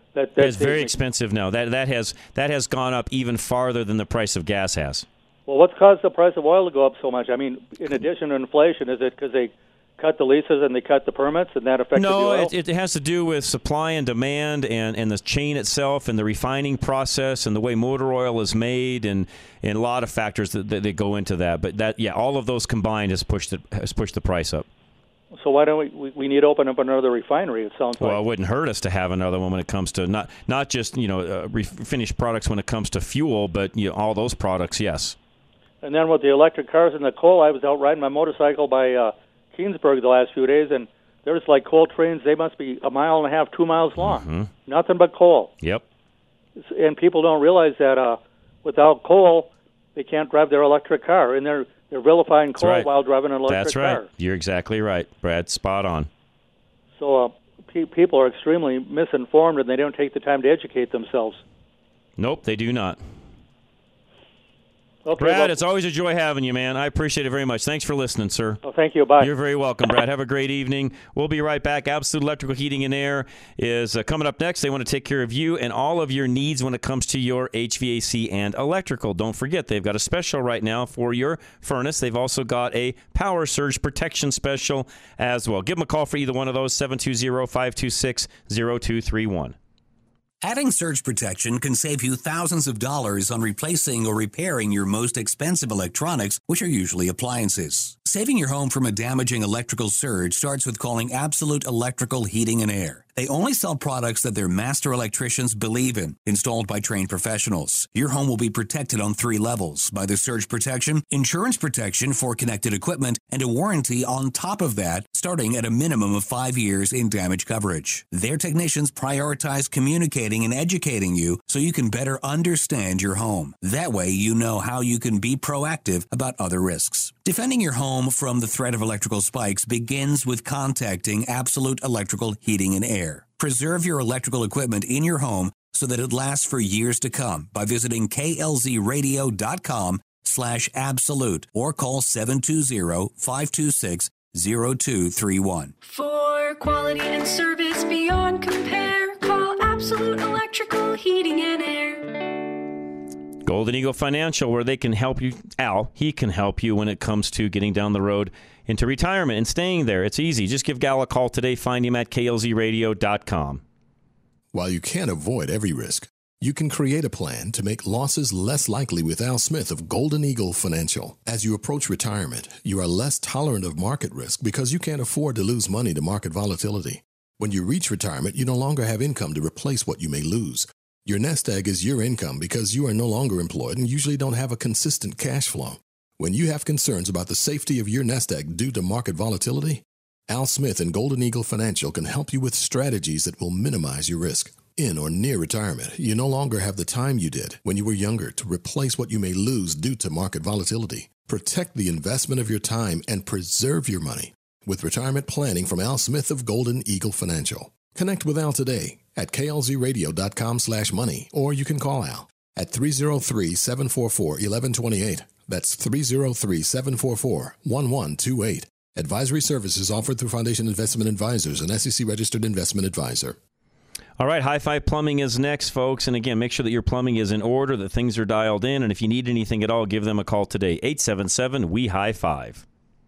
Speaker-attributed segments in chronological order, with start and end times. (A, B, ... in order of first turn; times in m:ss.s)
0:00.1-0:00.9 A
0:00.4-0:05.0 B
0:05.5-0:12.5 A
0:11.9-0:24.6 B
0:25.3-0:28.2 A
0:28.0-0:35.2 B
0:35.8-0:45.5 A
0:44.0-0:44.5 B
0:46.6-0:54.1 A
0:52.6-0:52.9 B
0:53.5-0:56.1 B
0:57.0-1:01.4 A
1:02.2-1:03.0 B
1:05.0-1:05.6 A
1:05.2-1:08.6 B
1:08.6-1:09.3 A
1:09.2-1:29.5 B
1:30.4-2:25.7 C
2:25.8-2:32.3 D
2:33.4-2:43.6 B
2:44.5-3:43.4 E
3:44.2-3:52.6 B